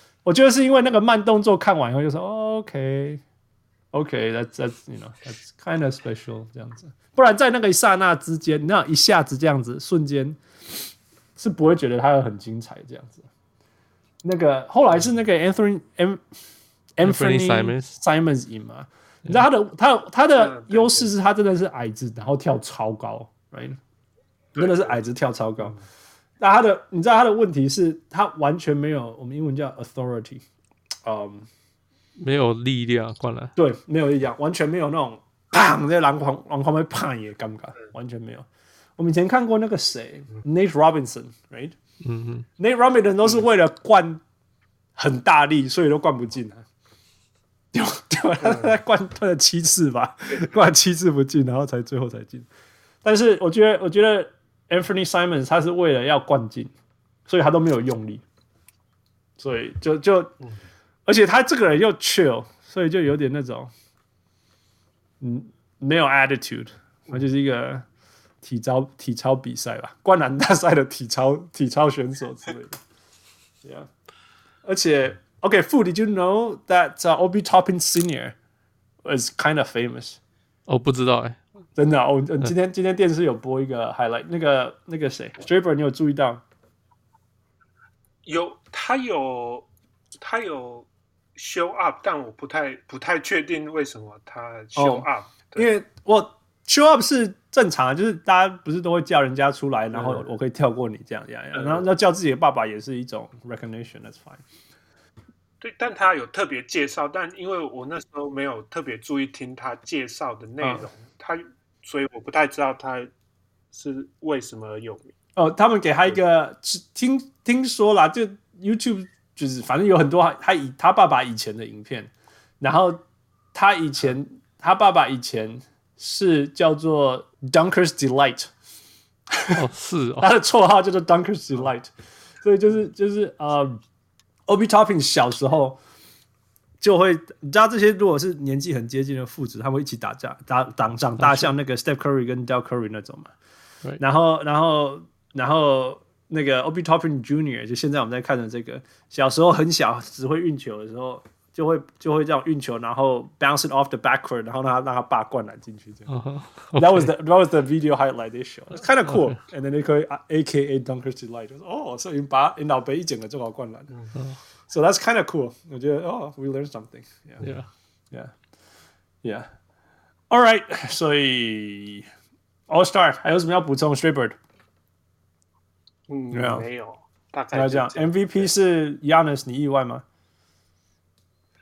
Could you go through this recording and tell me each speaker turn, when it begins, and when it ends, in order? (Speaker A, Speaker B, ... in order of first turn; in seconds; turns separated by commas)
Speaker A: 0.2-3.2, Speaker A: 3.9-10.8, Speaker A: 11.3-13.3, Speaker A: 14.2-16.2, Speaker A: 17.0-23.8, Speaker B: 17.0-17.9, Speaker C: 20.4-21.1, Speaker A: 24.5-25.8, Speaker C: 24.6-25.0, Speaker A: 26.4-30.4, Speaker A: 31.0-31.5, Speaker B: 32.2-33.5, Speaker A: 33.5-41.8, Speaker B: 42.0-42.5, Speaker A: 42.6-44.2, Speaker A: 45.0-46.7, Speaker A: 47.7-52.5, Speaker C: 48.4-48.7, Speaker A: 53.0-56.7, Speaker A: 57.2-58.2, Speaker A: 59.4-60.3, Speaker A: 61.0-63.7, Speaker A: 65.2-67.8, Speaker A: 68.4-72.8, Speaker A: 73.6-73.9, Speaker A: 74.6-78.3, Speaker A: 79.0-80.2, Speaker B: 80.7-81.4, Speaker A: 81.8-86.4, Speaker C: 88.2-89.7, Speaker C: 90.2-95.7, Speaker A: 94.8-104.4, Speaker C: 99.9-100.2, Speaker C: 101.5-101.8, Speaker C: 105.6-113.1, Speaker A: 110.6-110.9, Speaker C: 113.7-115.1, Speaker A: 115.3-123.0, Speaker A: 123.5-128.5, Speaker A: 129.3-129.6, Speaker B: 129.5-130.3, Speaker A: 130.2-133.8, Speaker A: 134.5-135.8, Speaker A: 136.8-143.3, Speaker B: 141.2-141.5, Speaker A: 144.0-156.1, Speaker B: 156.1-157.1, Speaker A: 156.7-163.9, Speaker B: 159.1-159.4, Speaker A: 164.7-167.5, Speaker B: 167.4-167.7, Speaker A: 169.2-169.5, Speaker A: 170.3-172.1, Speaker A: 172.7-174.4, Speaker C: 176.1-178.5, Speaker A: 176.3-176.7, Speaker A: 177.5-180.0